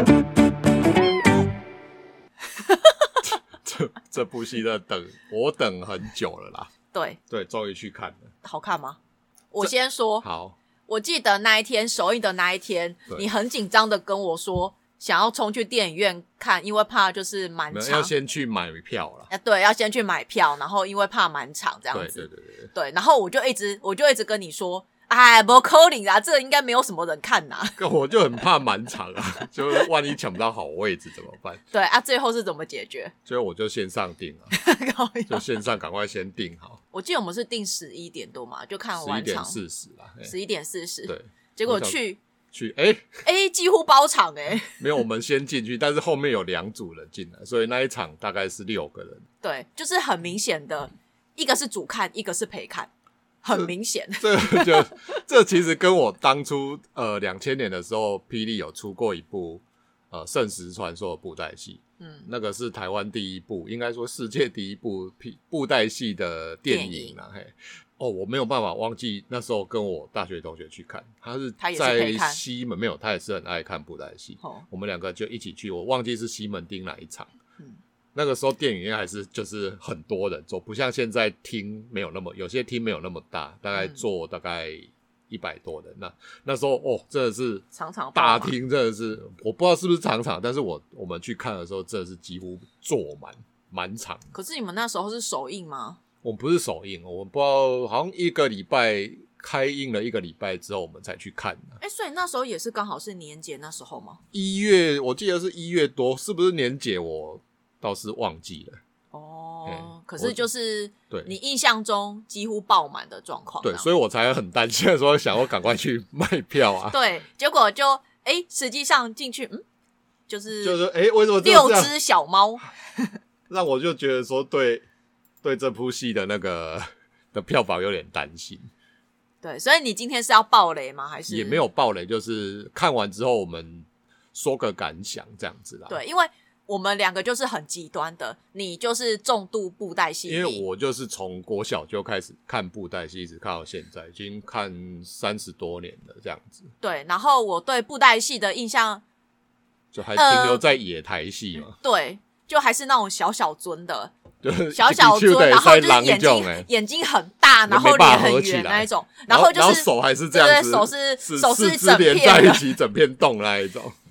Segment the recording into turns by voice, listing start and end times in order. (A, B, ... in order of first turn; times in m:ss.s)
0:02.6-0:03.1 A
0:03.2-0:06.7 B
0:06.9-0:07.2 A
0:07.3-0:08.3 B
0:08.4-0:09.0 A
0:09.5-0:10.2 A
0:09.6-0:10.6 B
0:10.9-0:18.1 A
0:17.7-0:19.3 B
0:19.3-0:27.8 A
0:21.9-0:22.7 B
0:27.8-0:31.6 B
0:31.7-0:33.1 A
0:33.2-0:34.5 B
0:34.5-0:35.5 A
0:35.3-0:36.8 B
0:36.9-0:39.6 A
0:39.0-0:40.3 B
0:40.2-0:42.2 A
0:41.1-0:42.0 B
0:42.5-0:43.2 B
0:43.2-0:44.8 A
0:44.8-0:49.2 B
0:49.4-0:52.9 A
0:53.4-0:55.2 A
0:54.2-1:17.3 B
1:02.0-1:02.3 A
1:06.7-1:07.1 A
1:11.6-1:12.4 A
1:14.4-1:14.6 A
1:18.1-1:34.2 B
1:27.7-1:28.5 A
1:34.3-1:36.0 A
1:36.2-1:41.8 B
1:41.8-1:44.2 A
1:44.3-1:48.8 B
1:49.1-1:53.9 A
1:49.6-1:50.4 B
1:53.6-1:57.0 B
1:56.9-1:59.6 A
2:00.3-2:00.8 A
2:00.6-2:01.9 B
2:01.4-2:02.7 A
2:03.5-2:04.8 B
2:05.4-2:08.7 B
2:09.4-2:11.6 A
2:11.3-2:16.0 B
2:15.9-2:20.6 A
2:20.3-2:26.7 B
2:26.8-2:29.0 A
2:29.9-2:31.8 B
2:30.1-2:30.6 A
2:31.8-2:34.1 A
2:34.4-2:36.7 B
2:34.7-2:42.7 A
2:37.7-2:43.9 B